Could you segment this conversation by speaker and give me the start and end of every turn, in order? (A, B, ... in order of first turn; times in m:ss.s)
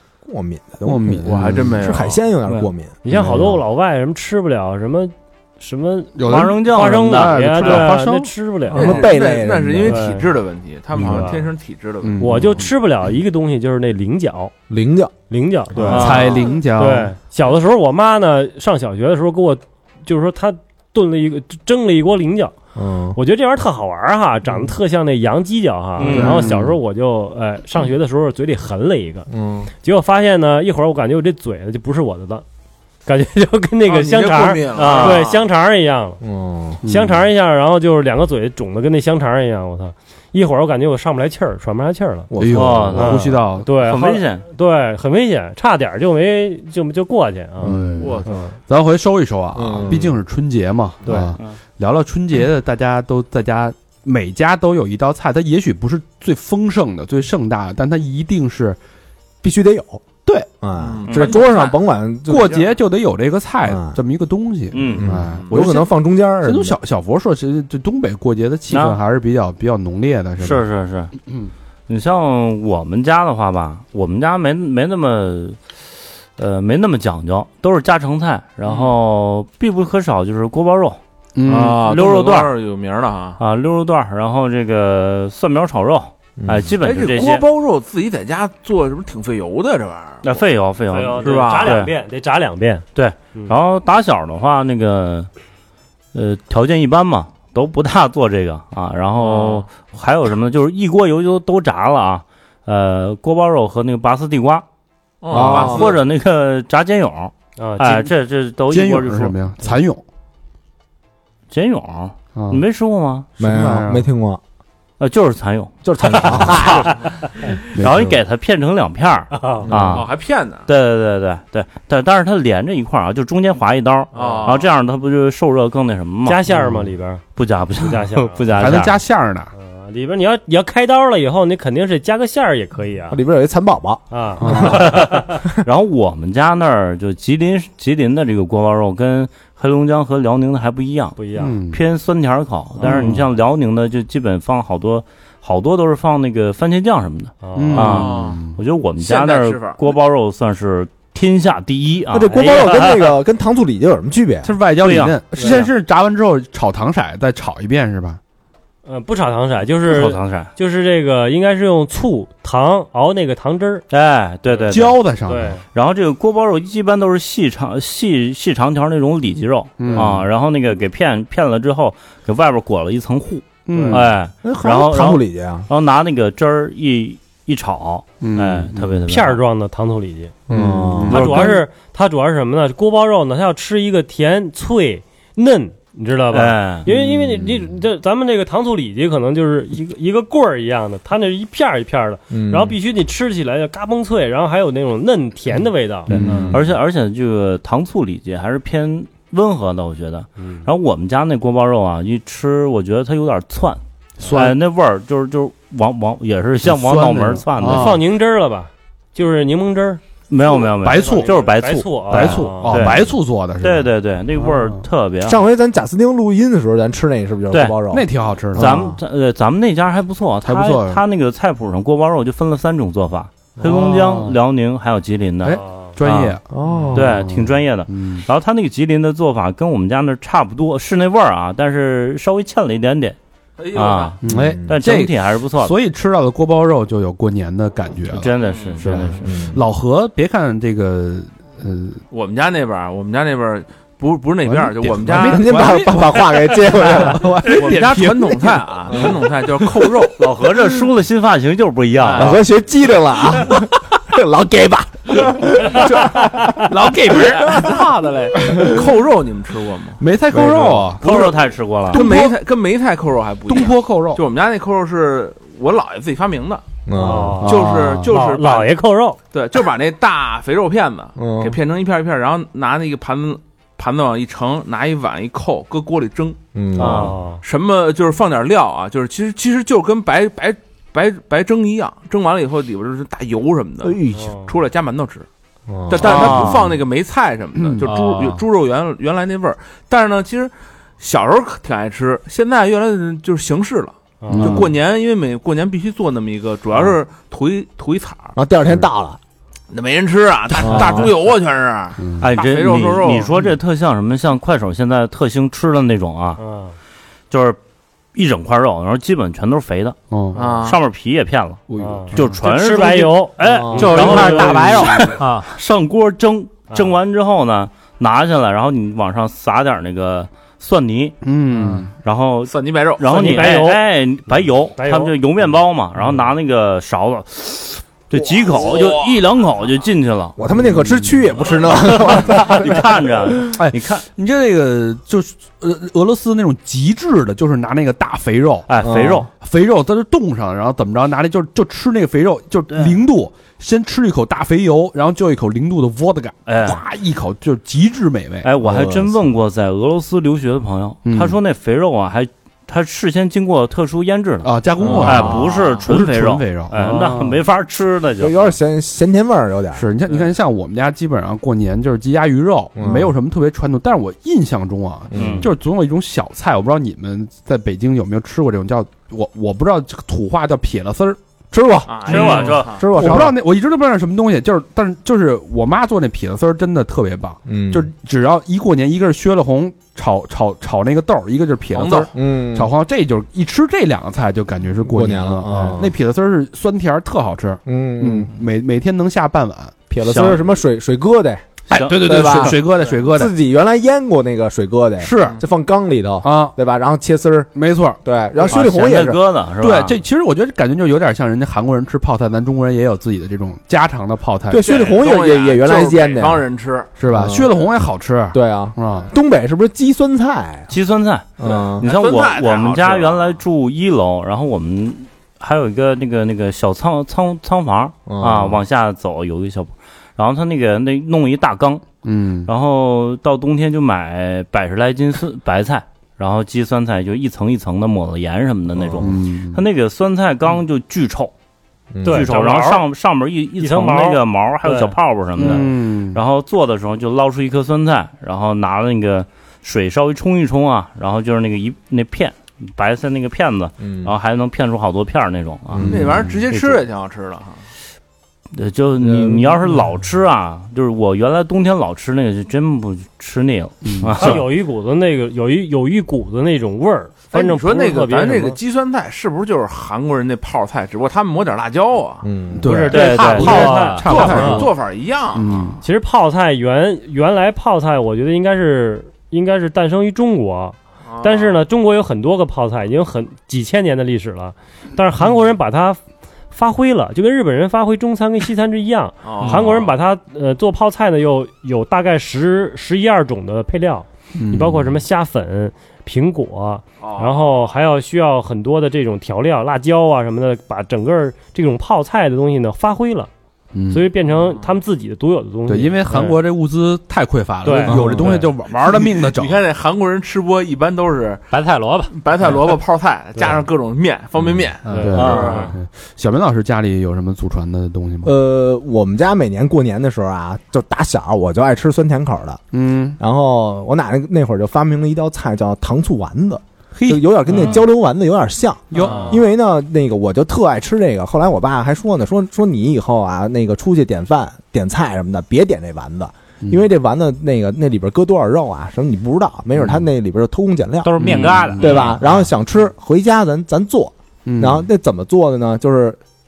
0:00.2-0:03.0 A
0:00.8-0:02.0 B
0:01.2-0:02.2 C
0:03.0-0:09.0 D
0:03.1-0:03.6 B
0:06.1-0:08.3 B
0:06.2-0:07.9 E
0:08.7-0:10.0 A
0:08.7-0:12.4 C
0:09.8-0:10.2 D
0:10.9-0:11.3 B
0:11.0-0:11.4 D
0:12.0-0:12.7 B
0:12.2-0:14.5 D
0:14.7-0:15.1 A
0:15.3-0:22.5 D
0:15.8-0:17.1 B
0:15.9-0:16.5 E
0:22.7-0:23.2 A
0:23.2-0:29.3 D
0:26.0-0:26.5 E
0:26.0-0:26.8 B
0:29.3-0:29.7 A
0:29.8-0:32.4 D
0:33.0-0:36.2 D
0:33.8-0:35.4 C
0:34.7-0:35.2 E
0:36.2-0:36.8 A
0:36.8-0:37.2 B
0:36.8-0:42.3 D
0:42.3-0:43.0 A
0:42.4-0:43.7 B
0:42.5-0:44.4 E
0:43.0-0:48.5 D
0:47.6-0:58.8 B
0:48.0-0:48.4 C
0:49.5-0:50.2 A
0:59.4-1:02.7 A
1:00.8-1:01.7 C
1:02.3-1:05.9 B
1:03.6-1:04.0 A
1:04.7-1:05.2 E
1:05.0-1:06.8 A
1:06.4-1:10.6 B
1:08.7-1:09.0 E
1:10.4-1:11.1 E
1:11.9-1:15.6 E
1:16.4-1:22.5 E
1:18.6-1:18.9 C
1:21.4-1:21.8 B
1:21.4-1:23.4 C
1:23.4-1:27.4 E
1:26.4-1:26.7 A
1:26.8-1:30.4 C
1:30.2-1:31.9 E
1:30.9-1:33.6 D
1:31.2-1:31.8 C
1:32.9-1:35.3 E
1:36.1-1:44.6 E
1:39.2-1:39.6 C
1:45.2-1:46.0 C
1:45.3-1:45.9 A
1:45.3-1:49.4 E
1:47.6-1:48.1 D
1:48.7-1:50.0 B
1:51.5-1:53.2 E
1:52.4-1:52.6 B
1:53.4-1:54.1 B
1:53.4-1:54.4 A
1:55.0-2:06.4 E
1:55.8-1:57.0 A
1:57.7-1:58.2 B
1:59.3-1:59.6 D
1:59.6-2:00.0 A
1:59.9-2:00.7 C
2:04.1-2:04.7 C
2:04.1-2:04.4 D
2:06.2-2:07.2 D
2:07.4-2:09.0 E
2:07.8-2:08.4 D
2:08.5-2:09.5 B
2:09.5-2:13.2 D
2:13.1-2:14.9 A
2:14.1-2:15.4 D
2:14.4-2:15.0 B
2:14.6-2:21.2 E
2:21.2-2:21.5 D
2:21.4-2:21.8 B
2:21.7-2:32.9 E
2:22.8-2:23.2 B
2:27.4-2:28.0 D
2:27.6-2:28.6 B
2:27.8-2:28.5 C
2:29.0-2:29.9 C
2:32.1-2:34.5 A
2:32.3-2:32.9 D
2:34.4-2:38.2 B
2:34.8-2:35.7 E
2:35.4-2:35.6 D
2:38.8-2:43.8 D
2:39.8-2:40.5 E
2:43.9-2:45.0 E
2:44.5-2:45.6 D
2:44.7-2:45.6 B
2:45.7-2:59.4 E
2:49.8-2:50.2 B
2:53.6-2:54.1 B
2:53.7-2:54.0 D
2:54.4-2:55.7 A
2:58.2-2:59.0 B
2:59.1-3:00.3 D
3:00.5-3:01.2 A
3:00.5-3:01.6 B
3:01.1-3:16.5 D
3:01.1-3:01.6 E
3:06.3-3:06.8 E
3:12.3-3:12.8 A
3:16.1-3:16.6 B
3:16.1-3:28.0 E
3:16.2-3:16.6 A
3:20.4-3:20.6 D
3:24.2-3:24.6 B
3:26.6-3:28.0 B
3:27.7-3:30.0 D
3:30.3-3:35.4 E
3:30.6-3:31.3 B
3:30.8-3:32.9 D
3:32.1-3:34.8 B
3:35.2-3:39.0 A
3:37.5-3:37.8 E
3:37.9-3:38.8 B
3:38.6-3:46.4 E
3:40.4-3:41.0 B
3:43.6-3:44.4 B
3:45.4-3:48.2 B
3:45.6-3:45.9 D
3:46.5-3:47.2 A
3:46.9-3:53.2 E
3:53.6-3:54.2 C
3:53.7-3:55.7 E
3:54.2-4:02.0 B
3:54.2-3:54.8 A
3:58.1-3:59.4 E
3:58.4-3:58.8 C
3:59.1-3:59.6 A
4:02.1-4:06.2 C
4:04.4-4:09.8 B
4:05.1-4:07.7 A
4:07.5-4:10.3 C
4:10.2-4:12.4 E
4:12.0-4:12.4 C
4:12.2-4:16.7 A
4:16.7-4:17.6 B
4:16.7-4:20.0 C
4:17.4-4:17.7 A
4:20.0-4:21.3 B
4:20.3-4:20.9 A
4:21.0-4:22.0 E
4:21.9-4:26.7 C
4:21.9-4:22.4 B
4:23.5-4:24.2 B
4:26.8-4:27.4 A
4:26.9-4:27.5 D
4:27.4-4:28.1 B
4:27.4-4:28.7 C
4:28.1-4:29.2 D
4:29.3-4:36.4 C
4:31.2-4:31.6 A
4:36.5-4:37.1 A
4:36.8-4:37.4 D
4:36.8-4:37.0 E
4:37.4-4:45.3 C
4:43.8-4:44.3 A
4:44.1-4:44.5 D
4:45.7-4:46.2 A
4:45.9-4:58.4 C
4:46.0-4:46.6 E
4:46.1-4:46.7 B
4:47.6-4:47.9 B
4:47.8-4:48.4 F
4:54.2-4:54.5 D
4:54.3-4:54.7 B
4:58.4-4:59.2 A
4:59.7-5:03.3 C
5:00.6-5:01.1 A
5:02.0-5:02.3 B
5:02.2-5:06.4 E
5:06.4-5:06.7 D
5:07.3-5:07.6 E
5:08.1-5:10.0 E
5:10.1-5:10.6 B
5:10.3-5:10.8 C
5:10.6-5:21.2 E
5:11.7-5:12.4 B
5:11.8-5:14.6 D
5:13.5-5:14.0 A
5:13.5-5:15.5 F
5:14.1-5:15.2 B
5:21.2-5:21.9 B
5:22.0-5:30.4 E
5:22.4-5:23.5 C
5:23.0-5:23.9 D
5:24.8-5:25.1 D
5:28.4-5:29.2 C
5:30.4-5:32.9 A
5:30.5-5:31.3 B
5:31.5-5:34.0 E
5:33.6-5:38.7 B
5:38.7-5:39.3 E
5:38.8-5:39.3 A
5:39.4-5:49.2 B
5:46.4-5:46.8 E
5:48.4-5:58.5 E
5:51.0-5:51.4 B
5:54.4-5:57.4 B
5:54.8-5:55.4 A
5:54.9-5:55.8 C
5:58.2-5:59.9 A
5:59.7-6:11.2 B
6:02.8-6:03.1 A
6:05.1-6:05.5 A
6:05.1-6:05.5 E
6:11.5-6:13.4 A
6:11.8-6:13.0 C
6:12.1-6:12.7 E
6:12.2-6:29.7 B
6:17.4-6:17.9 A
6:21.7-6:22.1 C
6:22.1-6:22.7 A
6:24.8-6:25.9 A
6:27.6-6:28.3 A
6:29.9-6:37.5 A
6:30.0-6:30.4 E
6:31.7-6:33.3 B
6:31.7-6:32.3 E
6:35.0-6:35.4 B
6:36.2-6:36.5 B
6:37.5-6:38.0 B
6:38.0-6:39.2 A
6:38.5-6:40.0 E
6:39.6-6:44.8 B
6:44.5-6:46.4 A
6:44.5-6:46.9 C
6:47.0-6:49.1 B
6:47.0-6:47.5 A
6:48.3-6:50.7 A
6:50.7-6:51.3 E
6:51.4-6:51.9 A
6:51.4-6:53.4 C
6:51.8-7:01.9 E
6:58.1-6:58.6 A
7:02.0-7:02.5 B
7:02.4-7:11.3 E
7:08.9-7:09.6 B
7:11.9-7:12.3 A
7:12.0-7:12.8 D
7:12.1-7:25.9 E
7:13.6-7:14.9 D
7:15.4-7:16.2 B
7:23.8-7:24.1 A
7:25.7-7:26.2 A
7:25.8-7:26.4 B
7:25.8-7:27.6 C
7:28.5-7:34.4 E
7:29.0-7:29.6 A
7:33.8-7:34.4 B
7:34.2-7:38.6 D
7:37.3-7:42.3 C
7:42.2-7:42.9 A
7:42.6-7:44.7 B
7:42.7-7:44.6 D
7:42.9-7:43.8 E
7:43.2-7:45.8 C
7:43.3-7:44.6 F
7:45.3-7:45.8 B
7:45.8-7:56.0 D
7:51.1-7:51.6 C
7:56.5-8:13.3 D
7:59.2-7:59.9 C
8:04.3-8:05.0 B
8:07.0-8:07.5 C
8:13.7-8:14.1 B
8:13.9-8:16.4 D
8:15.7-8:19.6 B
8:17.6-8:18.4 D
8:17.9-8:18.4 A
8:18.8-8:21.5 C
8:21.5-8:22.1 F
8:22.1-8:25.7 C
8:24.4-8:28.3 B
8:24.9-8:25.7 D
8:25.1-8:25.7 E
8:28.2-8:32.6 A
8:32.7-8:33.2 B
8:33.2-8:56.2 A
8:36.9-8:37.8 B
8:38.9-8:39.4 B
8:39.0-8:39.3 C
8:49.8-8:50.0 B
8:51.0-8:52.2 F
8:51.2-8:52.5 B
8:54.4-8:54.9 B